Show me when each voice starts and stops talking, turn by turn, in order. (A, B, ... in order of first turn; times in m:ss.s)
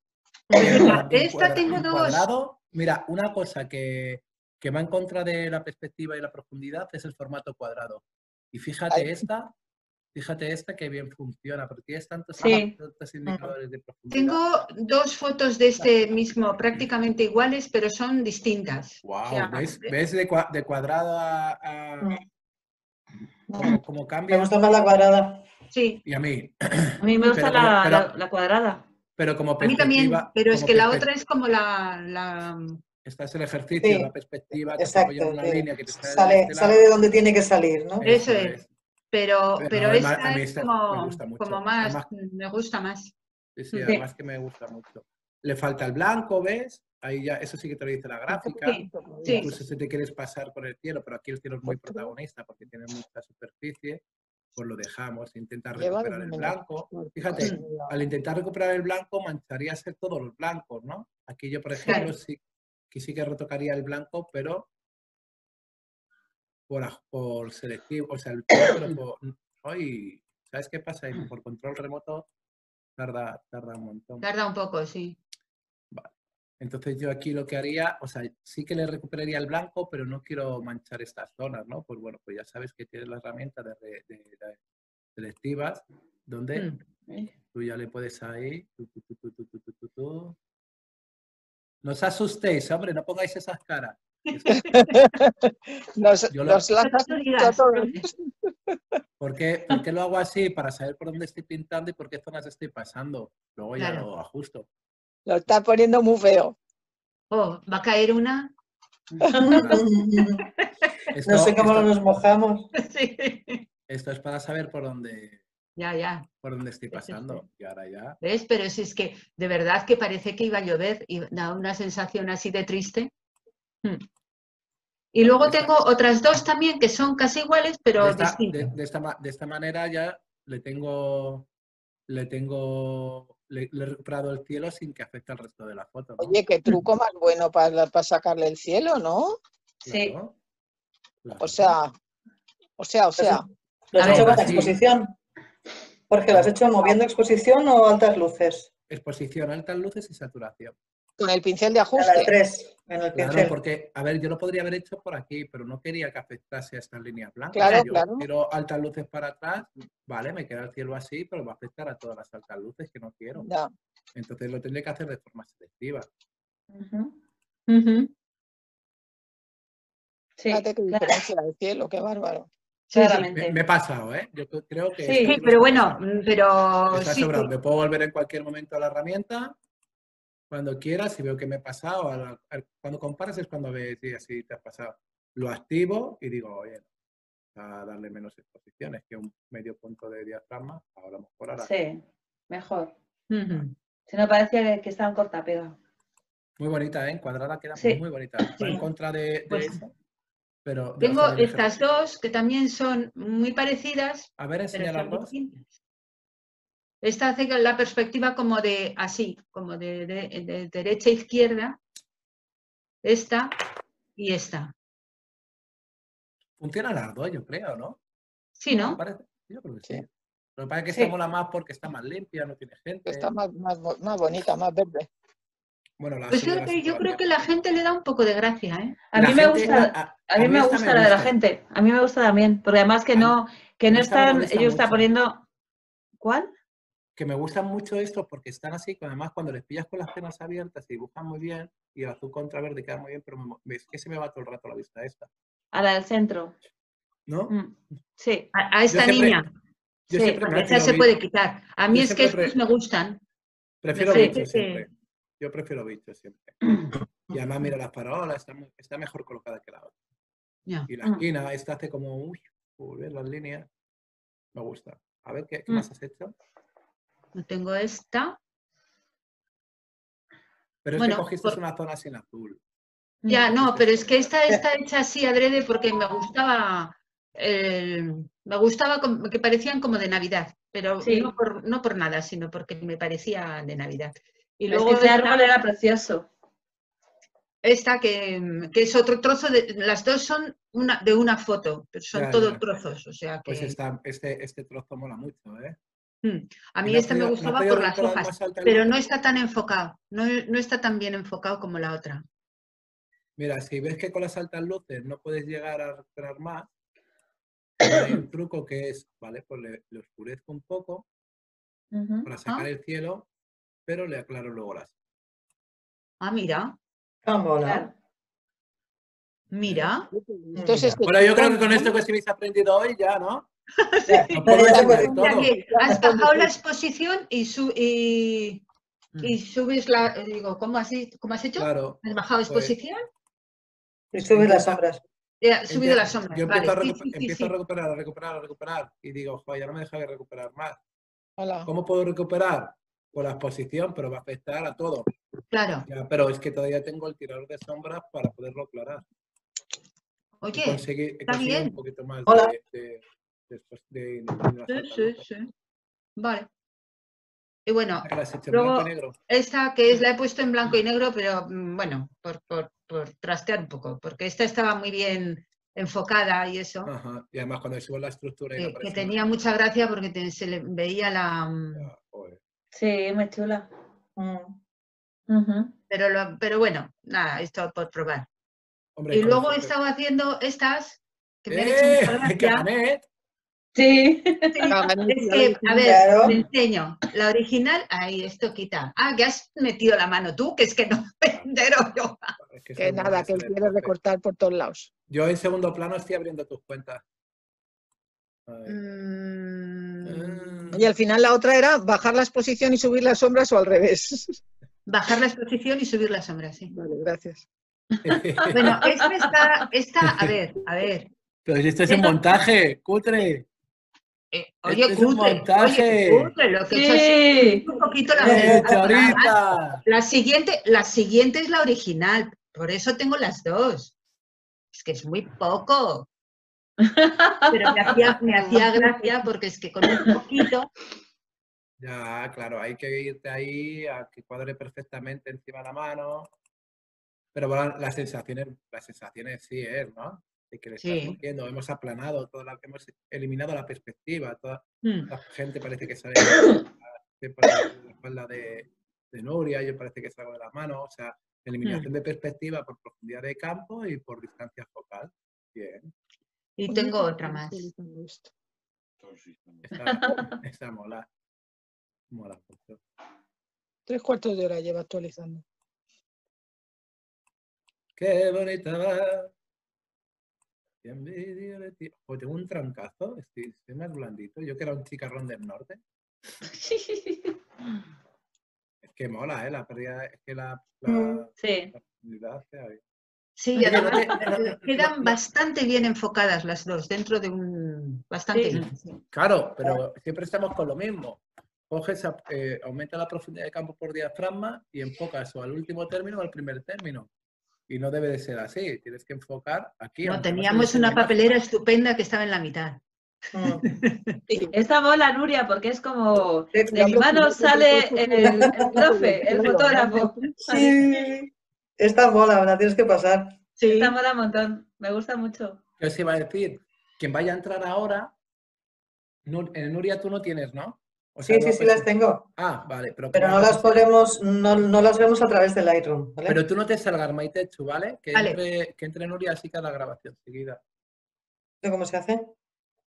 0:00.5-0:00.9 A
0:00.5-0:02.2 B
0:00.6-0:09.5 C
0:08.9-0:09.2 D
0:10.1-0:14.4 C
0:12.4-0:12.7 E
0:13.2-0:13.5 A
0:14.1-0:19.9 B
0:19.0-0:22.2 C
0:23.5-0:23.8 A
0:23.6-0:24.5 C
0:24.3-0:25.5 A
0:25.7-0:26.0 B
0:26.0-0:28.1 C
0:27.0-0:28.9 E
0:29.2-0:31.1 C
0:29.6-0:32.8 B
0:33.0-0:36.9 C
0:33.8-0:34.1 A
0:34.6-0:38.1 A
0:38.0-0:38.7 C
0:38.0-0:38.6 B
0:39.1-0:43.1 B
0:39.6-0:42.1 C
0:43.6-0:48.8 C
0:43.7-0:44.0 E
0:48.3-0:49.6 D
0:48.6-0:49.5 B
0:49.3-0:54.0 C
0:51.7-0:52.1 D
0:54.5-1:02.4 C
0:55.8-0:58.0 D
1:02.9-1:04.7 C
1:06.7-1:12.3 C
1:13.0-1:14.2 C
1:14.2-1:15.2 B
1:15.9-1:24.6 C
1:25.2-1:26.7 C
1:26.5-1:26.8 B
1:27.5-1:30.4 C
1:31.8-1:34.9 C
1:34.5-1:38.8 D
1:36.3-1:36.7 C
1:36.8-1:38.1 B
1:39.2-1:44.7 C
1:43.8-1:44.1 B
1:45.2-1:46.6 D
1:47.3-1:48.5 B
1:49.3-1:50.5 A
1:49.4-1:49.9 C
1:51.1-1:52.2 C
1:51.2-1:52.7 A
1:52.7-1:53.6 B
1:53.9-1:55.4 C
1:55.8-1:56.3 B
1:56.4-1:58.2 C
1:56.9-1:57.2 B
1:58.2-2:03.1 B
2:05.1-2:08.7 B
2:05.2-2:05.7 C
2:08.0-2:11.5 C
2:12.1-2:16.4 C
2:16.2-2:19.4 D
2:19.8-2:20.3 C
2:19.8-2:20.2 E
2:21.2-2:21.7 C
2:21.4-2:21.9 D
2:22.8-2:23.4 D
2:23.2-2:25.1 A
2:24.0-2:24.6 B
2:24.0-2:24.8 C
2:26.1-2:28.7 A
2:28.9-2:30.7 C
2:31.2-2:32.3 D
2:31.9-2:33.5 A
2:33.1-2:43.5 C
2:37.5-2:38.3 D
2:43.4-2:43.7 D
2:44.1-2:46.1 C
2:46.7-2:47.1 E
2:47.7-2:48.1 B
2:50.4-2:51.2 E
2:50.5-2:52.5 D
2:52.9-2:53.3 B
2:52.9-2:53.6 E
2:53.1-2:56.0 C
2:55.0-2:55.4 E
2:55.2-2:57.5 B
2:56.9-2:59.6 C
3:00.5-3:06.9 C
3:07.5-3:11.7 C
3:11.6-3:12.9 E
3:13.3-3:13.7 B
3:14.1-3:15.8 E
3:16.6-3:19.9 C
3:17.8-3:18.0 E
3:18.5-3:18.8 B
3:19.5-3:19.8 B
3:20.6-3:21.7 C
3:21.0-3:25.6 B
3:24.4-3:25.3 C
3:27.0-3:31.8 B
3:33.0-3:33.6 B
3:34.2-3:34.7 B
3:36.6-3:38.0 C
3:38.6-3:39.0 B
3:38.7-3:43.3 C
3:43.0-3:45.1 D
3:46.0-3:47.2 C
3:46.3-3:49.0 B
3:49.1-3:55.4 E
3:49.1-3:51.3 C
3:53.9-3:55.1 C
3:56.2-3:56.5 E
3:57.2-4:05.3 C
4:05.7-4:06.6 E
4:07.3-4:07.5 C
4:07.5-4:08.5 E
4:08.5-4:09.4 B
4:08.9-4:09.4 C
4:10.1-4:11.1 C
4:10.1-4:10.4 E
4:10.4-4:13.2 B
4:11.9-4:12.6 C
4:13.8-4:19.9 C
4:13.9-4:14.8 B
4:14.1-4:14.4 E
4:20.9-4:23.7 C
4:24.5-4:26.3 C
4:27.3-4:28.4 B
4:30.8-4:32.6 C
4:31.0-4:31.6 B
4:33.2-4:33.5 E
4:33.3-4:45.5 B
4:33.5-4:34.6 C
4:41.0-4:41.3 E
4:44.7-4:46.3 E
4:47.6-4:53.8 B
4:52.1-4:52.6 C
4:53.5-4:55.8 C
4:56.2-5:02.2 B
4:56.8-4:59.0 C
5:03.4-5:06.7 C
5:07.8-5:11.0 C
5:11.9-5:12.3 E
5:12.2-5:13.3 C
5:13.8-5:14.9 C
5:16.2-5:16.8 B
5:17.2-5:17.9 A
5:17.6-5:17.9 E
5:19.5-5:20.1 B
5:19.6-5:19.9 C
5:20.1-5:21.9 D
5:20.6-5:21.0 A
5:21.0-5:23.5 C
5:23.8-5:28.6 B
5:24.1-5:25.2 A
5:24.3-5:25.5 C
5:24.6-5:26.5 D
5:29.2-5:33.0 B
5:31.6-5:32.7 C
5:34.1-5:35.0 A
5:34.3-5:34.6 C
5:35.4-5:37.5 B
5:35.7-5:40.8 C
5:41.4-5:41.7 D
5:41.6-5:45.1 C
5:45.5-5:45.8 B
5:45.8-5:49.0 C
5:50.4-5:51.7 B
5:50.5-5:55.2 C
5:52.3-5:52.5 A
5:54.7-5:55.5 B
5:56.2-5:56.5 B
5:57.6-6:06.9 B
5:58.0-5:59.1 C
6:06.8-6:09.2 C
6:08.6-6:11.9 B
6:11.7-6:12.4 C
6:12.7-6:13.7 E
6:14.2-6:14.6 A
6:15.3-6:15.7 E
6:15.9-6:18.3 B
6:19.0-6:19.7 C
6:19.1-6:22.7 B
6:21.5-6:23.0 C
6:23.7-6:24.7 E
6:24.5-6:32.3 B
6:24.7-6:26.0 D
6:25.8-6:26.4 A
6:32.4-6:33.9 C
6:32.8-6:34.9 D
6:35.1-6:37.0 C
6:38.5-6:38.8 C
6:38.6-6:40.6 B
6:40.0-6:40.9 C
6:40.7-6:44.4 D
6:44.8-6:46.7 B
6:46.7-6:47.4 D
6:48.0-6:48.8 C
6:48.4-6:49.3 E
6:48.5-6:51.1 B
6:50.0-6:50.4 C
6:51.4-6:53.5 C
6:51.9-6:52.2 B
6:54.3-7:03.9 B
6:54.6-6:56.3 C
6:56.7-6:57.7 E
6:58.2-6:58.8 A
6:58.2-6:59.8 C
7:04.7-7:06.1 B
7:06.8-7:08.9 E
7:07.5-7:10.7 B
7:11.8-7:16.3 C
7:17.3-7:35.9 C
7:20.8-7:21.2 B
7:24.8-7:25.1 B
7:36.6-7:37.7 B
7:36.7-7:38.3 D
7:39.6-7:41.1 C
7:39.8-7:40.3 E
7:42.1-7:42.8 C
7:43.9-7:45.4 D
7:48.0-7:49.3 C
7:50.8-7:55.8 C
7:56.5-7:57.3 E
7:58.8-8:02.8 C
8:00.9-8:01.2 A
8:01.4-8:01.7 E
8:03.4-8:08.6 B
8:03.6-8:04.1 E
8:03.6-8:05.2 C
8:08.3-8:08.6 E
8:08.5-8:17.1 C
8:17.7-8:21.2 C
8:20.0-8:22.8 B
8:23.3-8:23.6 A
8:23.6-8:24.2 B
8:24.3-8:24.5 D
8:24.5-8:30.7 E
8:26.5-8:27.0 A
8:26.7-8:30.7 D
8:28.2-8:28.8 A
8:30.5-8:33.4 A
8:33.6-8:33.9 B
8:33.6-8:35.6 E
8:35.8-8:38.1 C
8:39.2-8:43.9 C
8:41.3-8:42.3 A
8:43.1-8:46.4 A
8:46.3-8:50.6 C
8:48.1-8:48.4 B
8:51.6-8:52.3 A